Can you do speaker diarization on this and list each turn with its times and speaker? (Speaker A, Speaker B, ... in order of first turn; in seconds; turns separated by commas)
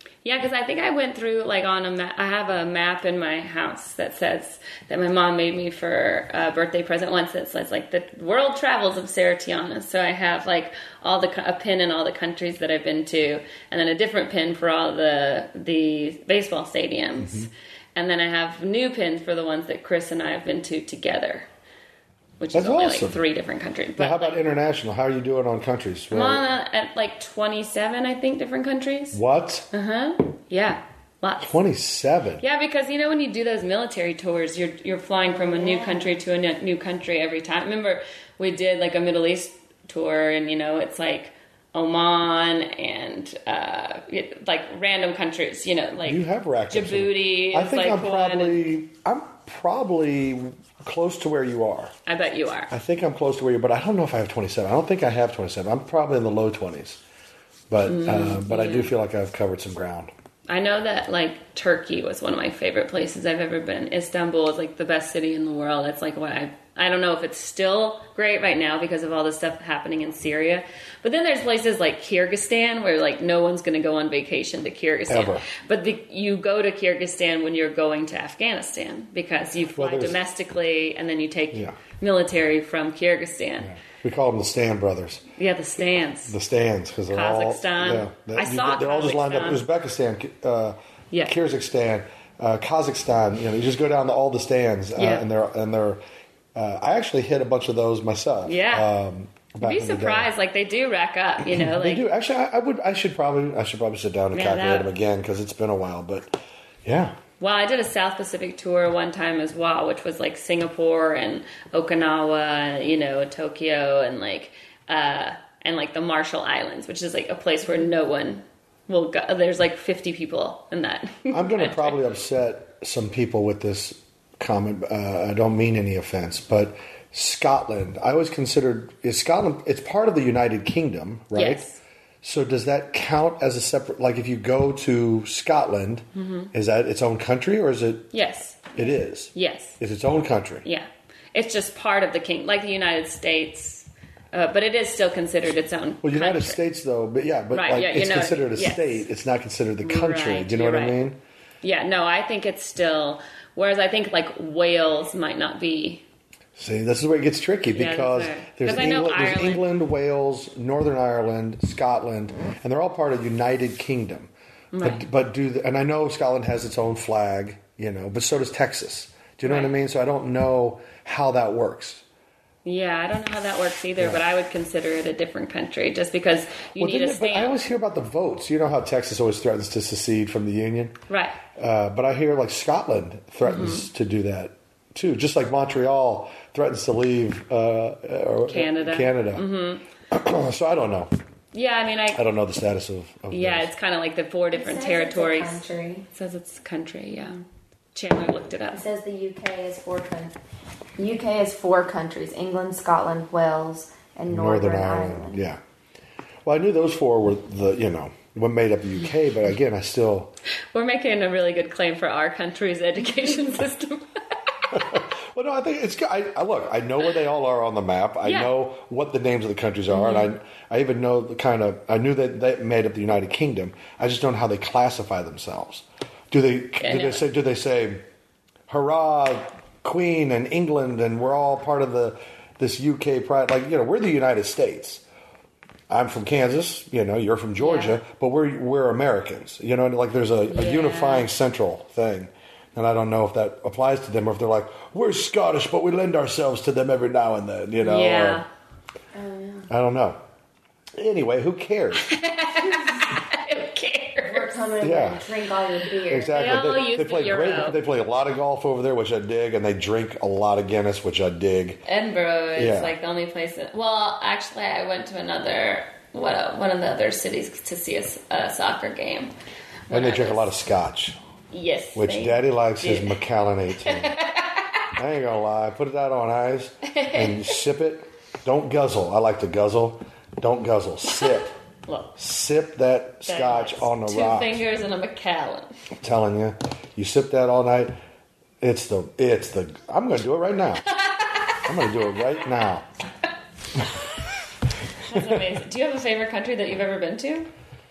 Speaker A: 0.2-21.5, Speaker B: 17.2-17.5, Speaker A: 22.4-24.4, Speaker B: 22.5-23.2, Speaker B: 24.0-26.4, Speaker A: 26.1-31.6, Speaker B: 29.1-29.7, Speaker B: 31.4-32.4, Speaker A: 32.4-48.6, Speaker C: 35.3-36.1, Speaker B: 46.0-51.9, Speaker A: 52.1-52.7, Speaker B: 52.7-57.0, Speaker B: 57.7-60.1, Speaker A: 57.9-58.9, Speaker A: 60.5-83.7, Speaker B: 75.1-75.5, Speaker B: 79.8-80.2, Speaker B: 83.6-85.2, Speaker A: 85.4-86.4, Speaker B: 86.3-96.0, Speaker A: 87.1-89.6, Speaker A: 95.0-95.3, Speaker B: 96.5-100.3, Speaker A: 98.5-98.9, Speaker A: 99.6-102.1, Speaker B: 101.4-107.2, Speaker A: 104.3-104.9, Speaker A: 107.4-122.0, Speaker B: 121.3-131.7, Speaker A: 131.3-131.8, Speaker B: 132.2-138.1, Speaker A: 136.2-136.5, Speaker A: 138.1-139.8, Speaker B: 138.8-140.7, Speaker A: 140.7-146.6, Speaker B: 146.0-151.2, Speaker A: 147.5-149.0, Speaker A: 149.8-151.0, Speaker A: 151.6-156.0, Speaker B: 156.6-172.0, Speaker A: 157.7-159.7, Speaker A: 164.7-165.1, Speaker A: 169.4-169.7, Speaker A: 172.7-177.6, Speaker B: 176.8-180.9, Speaker A: 181.1-181.4, Speaker B: 181.6-189.4, Speaker A: 183.5-183.9, Speaker A: 188.5-189.8, Speaker B: 190.1-191.1, Speaker A: 191.5-192.2, Speaker B: 192.1-193.7, Speaker A: 193.3-195.6, Speaker C: 194.5-196.1, Speaker A: 196.1-197.4, Speaker A: 197.9-198.8, Speaker C: 198.7-200.3, Speaker C: 201.0-205.4, Speaker B: 204.3-205.6, Speaker B: 206.4-210.3, Speaker A: 210.7-215.0, Speaker B: 214.7-228.0, Speaker A: 218.2-218.5, Speaker A: 219.9-220.3, Speaker A: 226.8-227.2, Speaker B: 228.7-235.0, Speaker B: 235.9-248.4, Speaker A: 237.6-238.0, Speaker A: 240.5-241.3, Speaker A: 247.8-248.5, Speaker C: 249.1-249.7, Speaker B: 249.7-250.2, Speaker B: 251.0-252.1, Speaker A: 252.0-254.6, Speaker C: 254.3-256.4, Speaker B: 254.8-255.3, Speaker B: 256.1-261.8, Speaker A: 256.3-257.8, Speaker A: 261.9-269.3, Speaker B: 262.6-262.9, Speaker A: 269.9-270.5, Speaker B: 269.9-271.2, Speaker A: 271.5-273.2, Speaker B: 271.9-274.2, Speaker A: 273.9-274.7, Speaker B: 275.0-281.6, Speaker A: 276.9-277.6, Speaker A: 281.1-282.1, Speaker B: 282.2-284.6, Speaker A: 283.3-285.7, Speaker B: 286.0-287.9, Speaker B: 288.6-290.9, Speaker A: 290.9-291.6, Speaker B: 291.6-292.9, Speaker A: 295.0-297.5